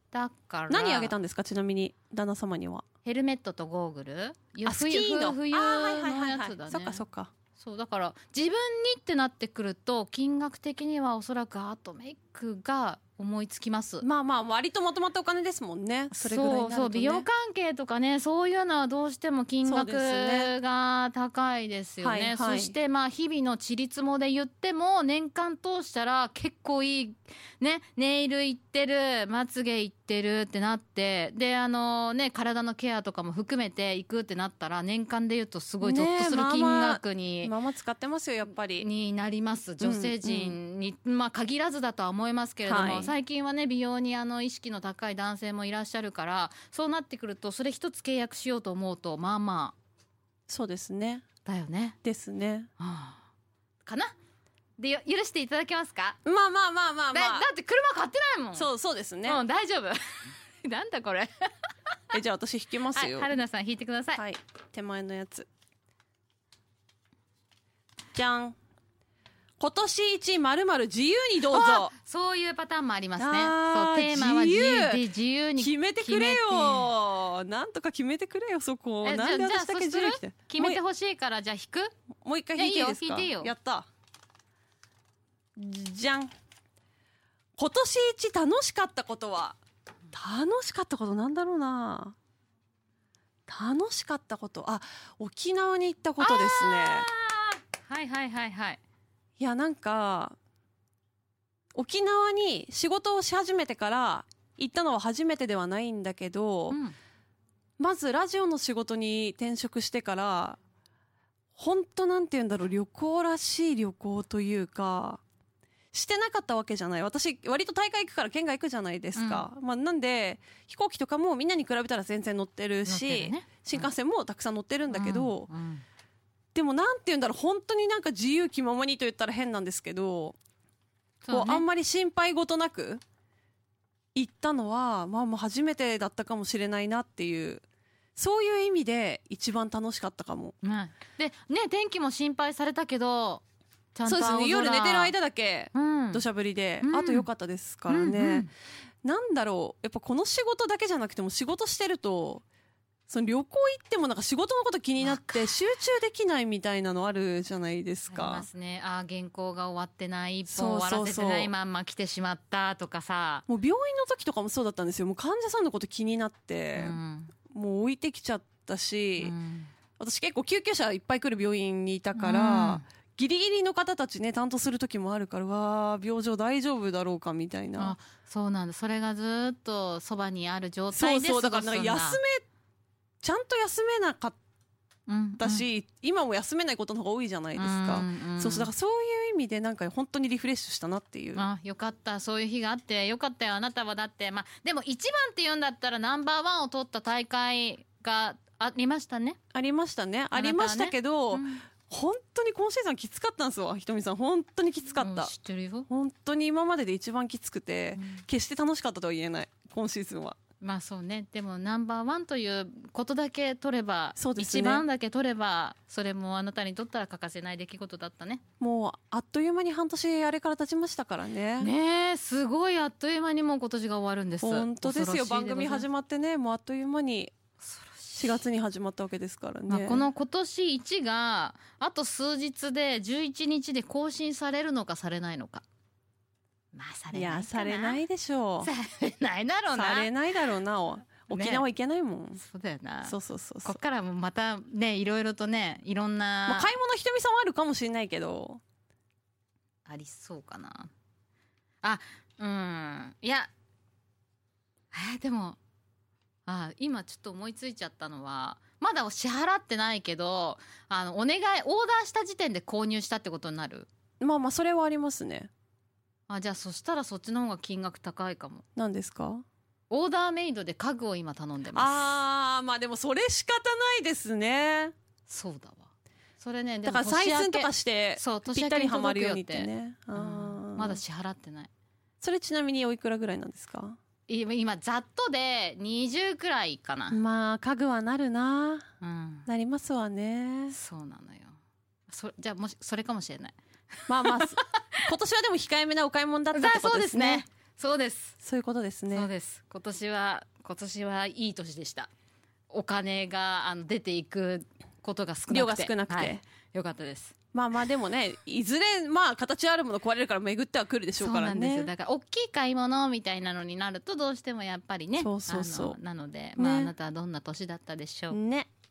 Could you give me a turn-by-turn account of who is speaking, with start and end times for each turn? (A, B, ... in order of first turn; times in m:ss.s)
0:00.1-0:01.1 A
0:00.7-0:02.8 B
0:03.0-0:07.0 A
0:04.6-0:07.3 B
0:07.6-0:14.1 A
0:14.0-0:17.3 B
0:16.1-0:37.5 A
0:19.6-0:20.5 B
0:22.0-0:22.8 B
0:35.8-0:38.9 B
0:38.6-0:49.8 A
0:39.8-0:40.6 B
0:42.6-0:43.1 B
0:50.5-0:51.2 B
0:51.4-0:52.0 A
0:52.0-0:52.7 B
0:52.8-0:53.2 A
0:53.8-0:54.2 A
0:54.8-0:56.2 A
0:56.2-0:57.5 B
0:57.1-0:58.7 A
0:58.5-0:59.4 B
0:59.3-1:02.0 A
1:02.1-1:03.3 B
1:02.9-1:04.2 A
1:04.2-1:05.5 B
1:08.1-1:08.6 B
1:09.6-1:11.9 B
1:11.5-1:16.9 A
1:13.2-1:15.0 B
1:15.6-1:20.8 B
1:19.0-1:22.0 A
1:22.2-1:23.9 B
1:22.6-1:23.5 A
1:25.6-1:26.3 B
1:27.6-1:29.6 B
1:30.1-1:32.2 B
1:33.5-1:37.1 B
1:36.2-1:38.8 A
1:39.4-1:40.4 B
1:41.7-1:46.8 B
1:46.7-1:47.0 A
1:47.8-1:50.6 B
1:51.6-1:55.2 B
1:55.9-2:05.5 B
1:59.2-1:59.5 A
2:02.8-2:03.9 A
2:04.9-2:05.8 A
2:06.5-2:10.4 B
2:11.2-2:11.7 A
2:11.3-2:13.0 B
2:14.2-2:17.6 B
2:18.2-2:20.6 B
2:20.6-2:23.4 A
2:23.9-2:25.2 A
2:24.0-2:28.5 B
2:25.7-2:26.2 A
2:26.8-2:27.3 A
2:27.9-2:28.5 A
2:29.0-2:32.4 B
2:33.1-2:38.5 B
2:35.0-2:35.7 A
2:38.1-2:43.5 A
2:40.5-2:41.5 B
2:43.5-2:47.0 B
2:46.8-2:47.3 A
2:47.5-2:49.4 B
2:49.2-2:49.7 A
2:50.0-2:58.0 B
2:52.2-2:52.8 A
2:57.8-3:02.2 A
3:00.9-3:02.4 B
3:03.2-3:04.4 B
3:05.1-3:05.7 A
3:05.4-3:11.5 B
3:07.6-3:08.7 A
3:11.4-3:19.4 A
3:19.5-3:25.3 B
3:20.3-3:21.7 A
3:25.0-3:25.9 A
3:25.9-3:30.4 B
3:28.0-3:28.2 A
3:30.6-3:38.4 A
3:34.2-3:34.8 B
3:38.6-3:41.7 B
3:41.6-3:45.9 A
3:44.4-3:47.3 B
3:47.6-3:48.4 A
3:48.2-3:50.1 B
3:49.7-3:55.6 A
3:56.7-3:58.0 A
3:57.1-3:58.7 B
3:58.6-4:00.1 A
3:59.7-4:02.4 B
4:01.3-4:01.6 A
4:02.4-4:06.7 A
4:03.0-4:03.8 B
4:06.5-4:08.6 B
4:09.9-4:10.9 A
4:11.8-4:13.5 A
4:14.9-4:15.6 A
4:16.5-4:23.9 A
4:24.2-4:25.5 B
4:26.3-4:28.6 A
4:28.8-4:29.4 B
4:29.9-4:32.1 A
4:31.7-4:34.9 B
4:35.3-4:41.7 A
4:36.8-4:41.0 B
4:42.2-4:44.0 B
4:44.3-4:47.2 A
4:47.1-4:48.9 B
4:49.0-4:49.5 A
4:49.5-4:50.8 B
4:50.7-4:51.6 A
4:52.1-4:53.6 A
4:54.1-4:55.1 A
4:54.1-4:57.5 B
4:56.5-4:58.4 A
4:58.4-4:59.3 B
4:59.1-5:02.1 A
5:02.7-5:07.4 A
5:05.5-5:06.4 B
5:07.5-5:11.9 B
5:11.2-5:18.4 A
5:15.2-5:16.0 B
5:16.6-5:16.9 B
5:18.3-5:18.7 B